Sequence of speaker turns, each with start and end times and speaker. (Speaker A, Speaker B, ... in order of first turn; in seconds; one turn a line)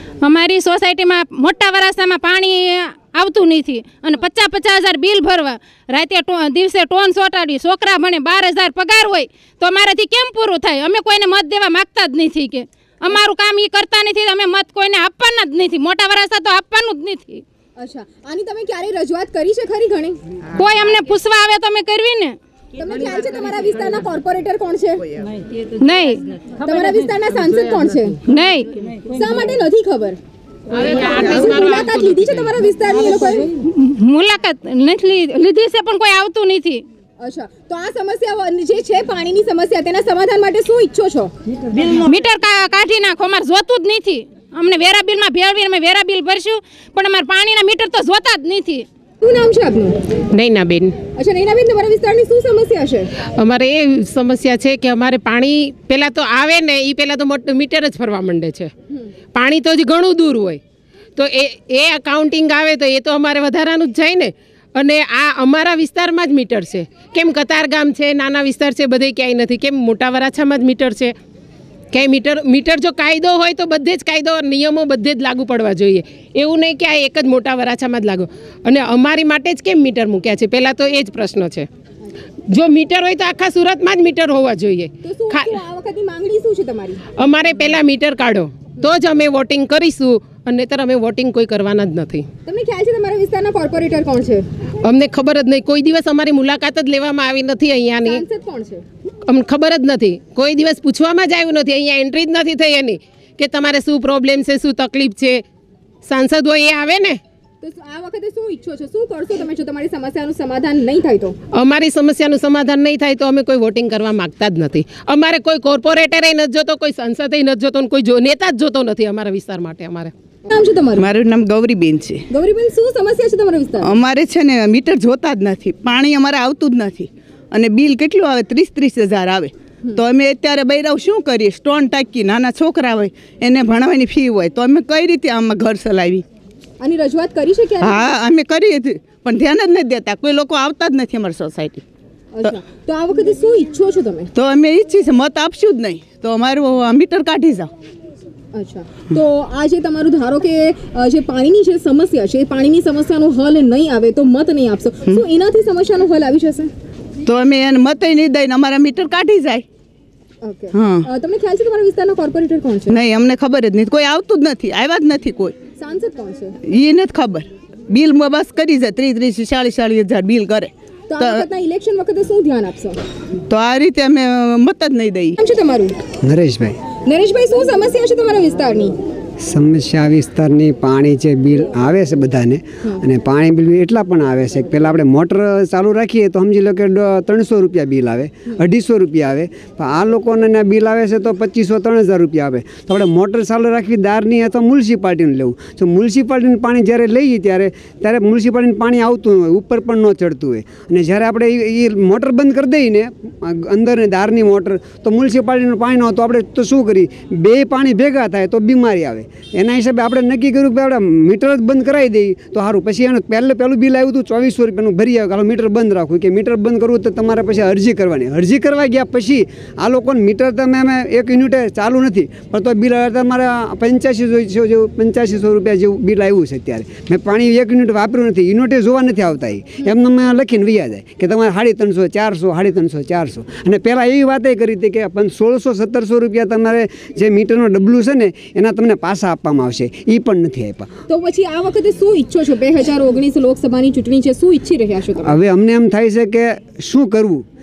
Speaker A: 0.2-17.4
Speaker B: 17.8-20.2
Speaker A: 20.6-22.4
Speaker B: 22.8-25.1
Speaker A: 25.8-26.2
Speaker B: 26.6-28.2
Speaker A: 28.3-28.7
Speaker B: 29.1-30.2
Speaker C: 30.8-32.1
Speaker B: 31.2-33.5
Speaker A: 33.6-36.8
Speaker B: 37.2-41.3
Speaker A: 41.8-48.9
Speaker B: 49.2-50.0
Speaker C: 50.4-51.0
Speaker B: 51.1-53.1
Speaker C: 53.4-58.7
Speaker C: 59.4-60.6
Speaker C: 61.2-71.2
Speaker C: 71.9-81.7
Speaker C: 82.5-85.6
Speaker B: 85.0-87.0
Speaker C: 87.2-92.3
Speaker B: 92.5-94.5
Speaker C: 94.8-98.2
Speaker B: 98.0-98.8
Speaker C: 99.3-105.4
Speaker C: 106.0-107.2
Speaker B: 107.6-111.3
Speaker C: 111.5-120.1
Speaker B: 120.5-121.1
Speaker D: 121.0-122.2
Speaker B: 122.3-123.9
Speaker D: 123.8-136.2
Speaker B: 136.8-138.0
Speaker D: 137.8-141.8
Speaker B: 142.3-144.3
Speaker D: 144.3-147.7
Speaker B: 148.5-156.7
Speaker D: 157.3-159.7
Speaker B: 160.4-163.0
Speaker D: 160.7-161.1
Speaker D: 162.9-165.6
Speaker B: 165.8-166.5
Speaker D: 166.7-171.5
Speaker B: 171.1-173.0
Speaker D: 173.5-175.3
Speaker B: 175.4-175.9
Speaker E: 176.2-176.8
Speaker B: 177.1-178.9
Speaker E: 179.4-240.9
Speaker B: 241.1-245.3
Speaker E: 245.2-247.4